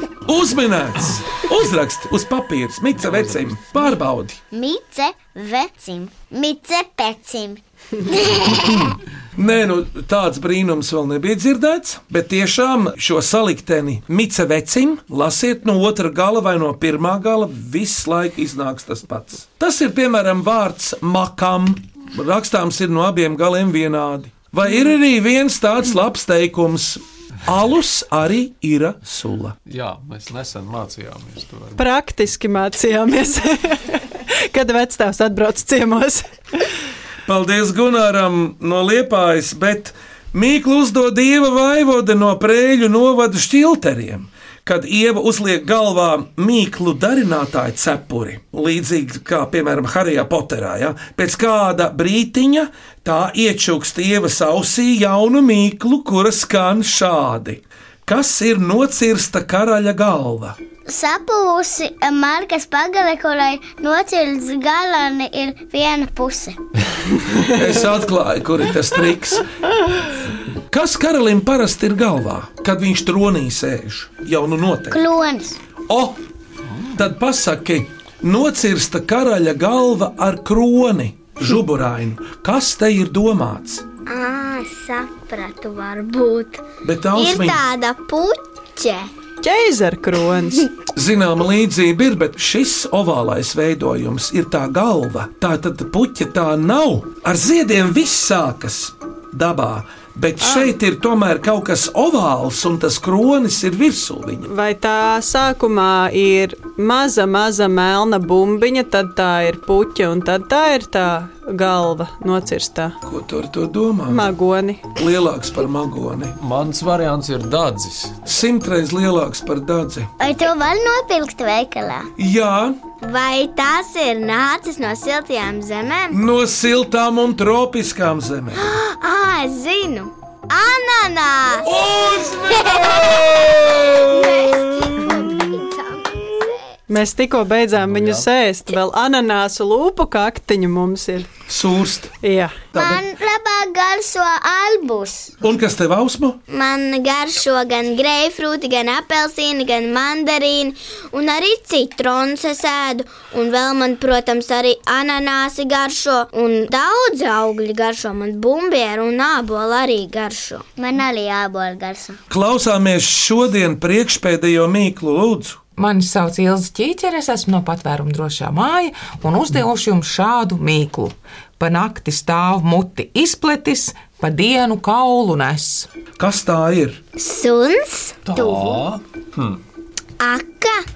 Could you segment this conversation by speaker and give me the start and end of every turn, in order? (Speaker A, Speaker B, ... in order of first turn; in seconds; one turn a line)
Speaker A: 0.2-4.4
Speaker B: 3.0-3.4
Speaker C: 4.5-8.9
Speaker A: 8.6-29.6
Speaker B: 29.6-31.8
Speaker D: 31.8-36.6
Speaker A: 37.2-60.6
Speaker C: 60.9-66.6
Speaker A: 67.5-69.5
Speaker A: 70.7-75.0
Speaker C: 74.9-75.6
Speaker A: 75.9-76.2
Speaker A: 76.9-83.8
Speaker E: 84.0-86.6
Speaker A: 86.8-87.6
Speaker E: 87.1-89.1
Speaker D: 89.4-90.7
Speaker A: 90.9-104.5
Speaker D: 100.4-100.7
Speaker D: 104.5-113.0
Speaker A: 113.0-114.3
Speaker D: 114.1-114.8
Speaker A: 114.9-116.3
Speaker B: 116.4-118.2
Speaker A: 118.2-120.1
Speaker C: 120.2-122.1
Speaker A: 122.2-122.8
Speaker E: 123.0-126.2
Speaker A: 126.1-128.6
Speaker E: 128.5-131.7
Speaker A: 131.6-135.2
Speaker E: 132.5-136.7
Speaker D: 136.9-141.3
Speaker B: 137.8-138.3
Speaker A: 141.5-142.1
Speaker D: 142.2-142.6
Speaker A: 142.7-143.0
Speaker C: 142.8-145.3
Speaker A: 145.4-146.4
Speaker E: 146.5-160.6
Speaker C: 160.8-162.2
Speaker A: 162.3-165.6
Speaker F: 165.8-175.9
Speaker A: 176.2-177.0
Speaker E: 177.2-178.8
Speaker B: 178.2-179.6
Speaker E: 180.2-180.8